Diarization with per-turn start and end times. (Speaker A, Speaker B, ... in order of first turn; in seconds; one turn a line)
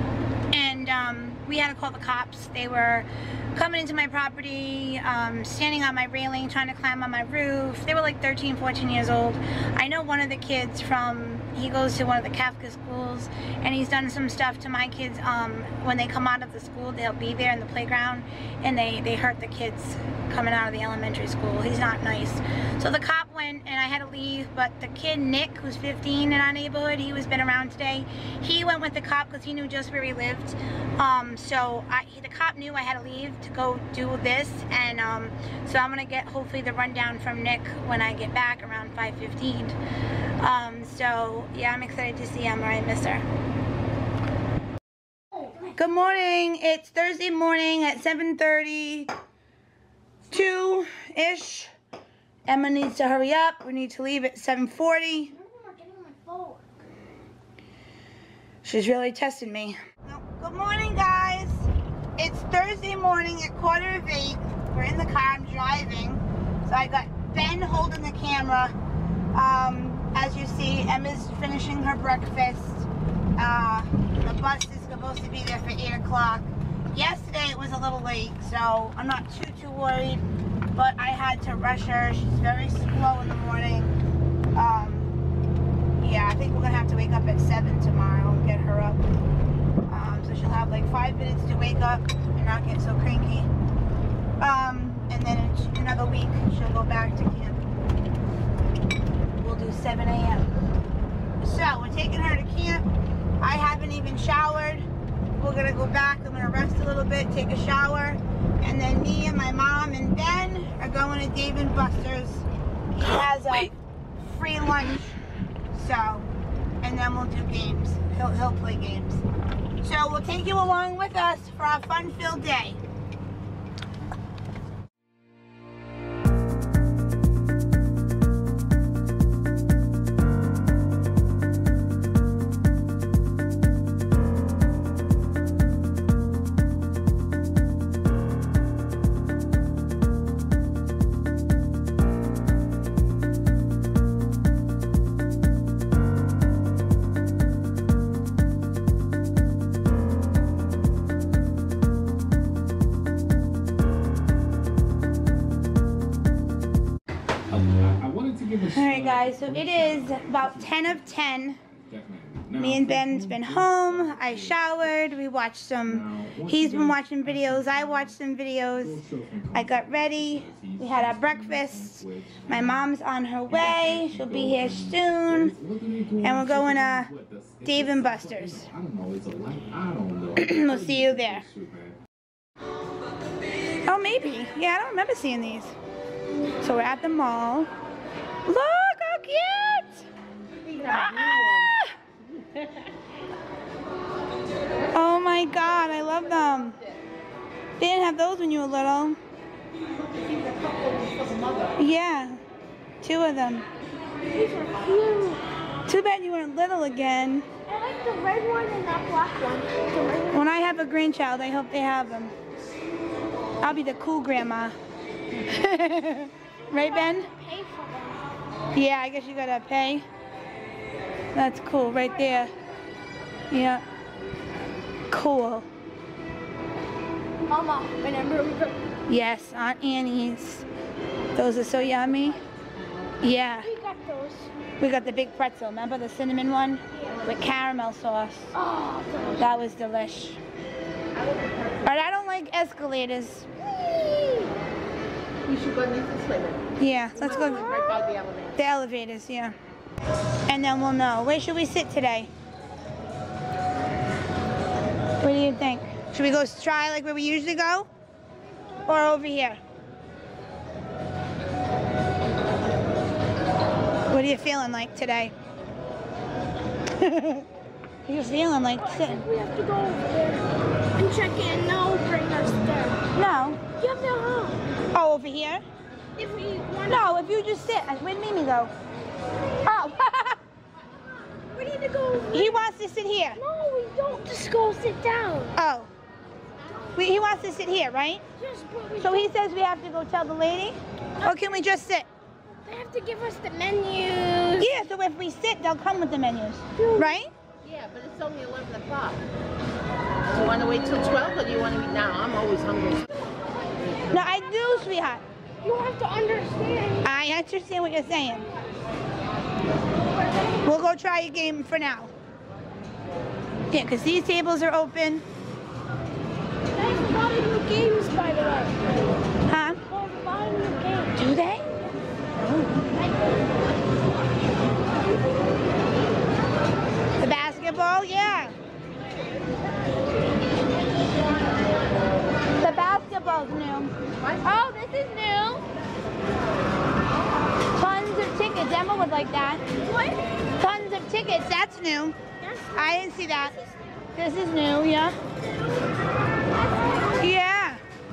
Speaker A: 0.5-39.8
Speaker A: 40.4-43.2
Speaker B: 45.4-45.7
Speaker A: 45.8-49.1
Speaker A: 50.3-51.7
Speaker A: 52.5-55.3
Speaker B: 55.3-56.6
Speaker A: 58.6-68.8
Speaker A: 69.3-84.0
Speaker A: 84.5-85.1
Speaker A: 86.0-89.0
Speaker A: 89.9-93.5
Speaker A: 94.4-97.6
Speaker A: 99.4-100.5
Speaker A: 101.4-102.9
Speaker A: 103.4-104.9
Speaker A: 105.4-115.2
Speaker A: 115.7-116.3
Speaker A: 116.8-119.2
Speaker A: 119.8-122.8
Speaker C: 157.5-164.9
Speaker A: 158.7-161.6
Speaker A: 162.6-169.0
Speaker C: 165.9-168.2
Speaker C: 168.8-172.9
Speaker A: 169.5-175.6
Speaker C: 173.5-182.0
Speaker A: 176.2-177.1
Speaker A: 177.7-178.7
Speaker A: 180.4-181.4
Speaker A: 183.8-185.8
Speaker A: 186.6-187.7
Speaker A: 188.5-190.1
Speaker D: 190.7-191.7
Speaker A: 190.9-191.9
Speaker A: 194.9-196.8
Speaker A: 197.8-199.2
Speaker D: 200.1-201.8
Speaker A: 201.8-202.4
Speaker A: 203.0-203.7
Speaker B: 204.3-205.4
Speaker A: 205.9-207.5
Speaker B: 207.7-210.5
Speaker A: 210.3-212.3
Speaker A: 213.6-214.8
Speaker A: 215.4-217.3
Speaker B: 216.7-218.3
Speaker A: 218.7-220.1
Speaker A: 221.3-222.5
Speaker A: 223.5-223.8
Speaker A: 225.1-225.7
Speaker B: 227.5-228.8
Speaker A: 229.1-230.7
Speaker A: 231.3-232.4
Speaker A: 233.2-233.7
Speaker B: 233.6-234.5
Speaker A: 234.8-238.5
Speaker B: 238.6-239.6
Speaker A: 239.4-240.4
Speaker D: 241.1-242.0
Speaker A: 241.8-243.5
Speaker B: 243.7-244.5
Speaker D: 245.5-248.6
Speaker A: 246.8-247.8
Speaker B: 247.7-248.0
Speaker A: 248.6-249.6
Speaker A: 250.5-252.3
Speaker A: 255.2-257.9
Speaker A: 258.9-259.6
Speaker A: 264.1-265.4
Speaker A: 267.0-267.5
Speaker A: 268.1-269.2
Speaker B: 268.8-273.0
Speaker A: 273.1-273.6
Speaker B: 273.8-274.6
Speaker A: 274.9-275.6
Speaker B: 276.2-277.2
Speaker A: 276.9-278.7
Speaker A: 279.6-280.4
Speaker B: 281.5-282.6
Speaker A: 282.3-283.4
Speaker B: 283.4-285.6
Speaker A: 285.6-285.9
Speaker A: 287.0-288.2
Speaker B: 288.4-289.3
Speaker A: 289.0-292.1
Speaker B: 292.6-294.8
Speaker A: 294.6-297.3
Speaker B: 296.8-297.2
Speaker D: 297.6-299.2
Speaker D: 300.3-303.3
Speaker A: 304.1-305.2
Speaker B: 305.6-307.1
Speaker A: 307.0-308.5
Speaker B: 310.3-310.6
Speaker A: 310.6-312.1
Speaker A: 313.7-315.3
Speaker B: 316.7-318.8
Speaker A: 319.5-319.8
Speaker B: 319.9-321.2
Speaker A: 321.2-321.7
Speaker A: 322.4-322.7
Speaker B: 322.9-323.5
Speaker A: 327.2-328.6
Speaker A: 332.6-333.9
Speaker B: 334.4-335.6
Speaker A: 334.6-335.6
Speaker A: 337.8-339.6
Speaker B: 339.8-340.2
Speaker A: 340.6-342.2
Speaker B: 342.4-344.0
Speaker A: 342.8-343.6
Speaker A: 344.1-345.2
Speaker A: 347.2-347.8